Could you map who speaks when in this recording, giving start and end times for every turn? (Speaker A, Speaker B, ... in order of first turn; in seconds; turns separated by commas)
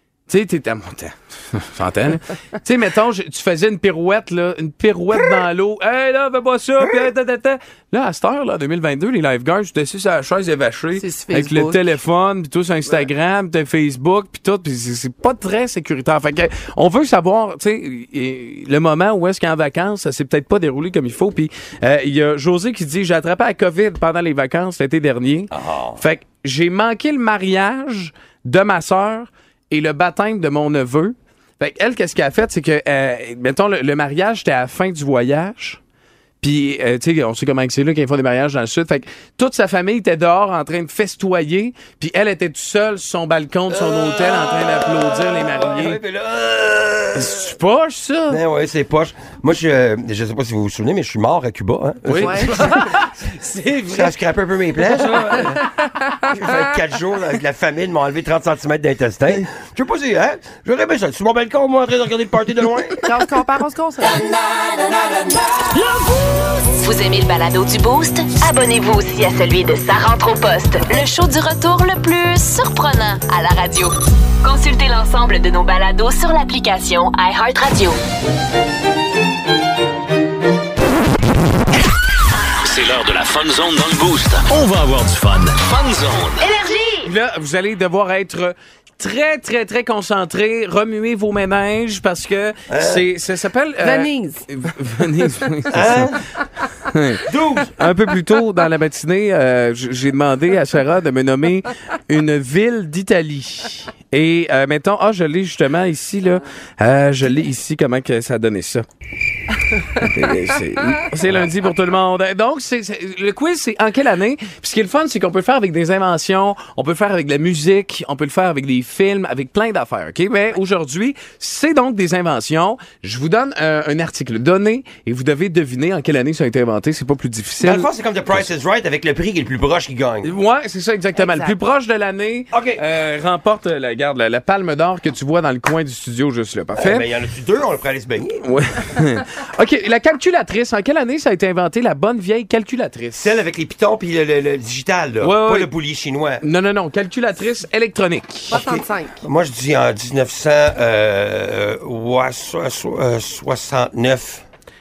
Speaker A: 0.3-35.8, Speaker B: 10.9-12.0, Speaker C: 25.5-26.0, Speaker A: 36.4-46.0, Speaker C: 43.7-47.4, Speaker A: 47.1-48.4, Speaker C: 48.3-53.0, Speaker A: 52.0-54.2, Speaker B: 52.2-53.0, Speaker C: 53.9-55.6, Speaker A: 54.9-55.5, Speaker C: 56.2-63.1, Speaker B: 63.0-64.3, Speaker D: 66.7-78.0, Speaker E: 82.6-86.5, Speaker D: 86.4-87.1, Speaker A: 87.0-96.2, Speaker C: 92.7-93.1, Speaker B: 93.8-94.5, Speaker C: 95.7-96.2, Speaker A: 96.9-108.9, Speaker C: 97.3-97.7, Speaker A: 109.8-128.5, Speaker C: 127.6-130.3, Speaker A: 130.2-137.1, Speaker B: 131.1-131.6, Speaker C: 132.5-132.8, Speaker C: 136.7-138.4, Speaker A: 138.4-143.3, Speaker C: 143.1-146.4, Speaker A: 145.2-145.7, Speaker A: 146.4-148.6, Speaker C: 148.5-154.4, Speaker B: 148.5-149.2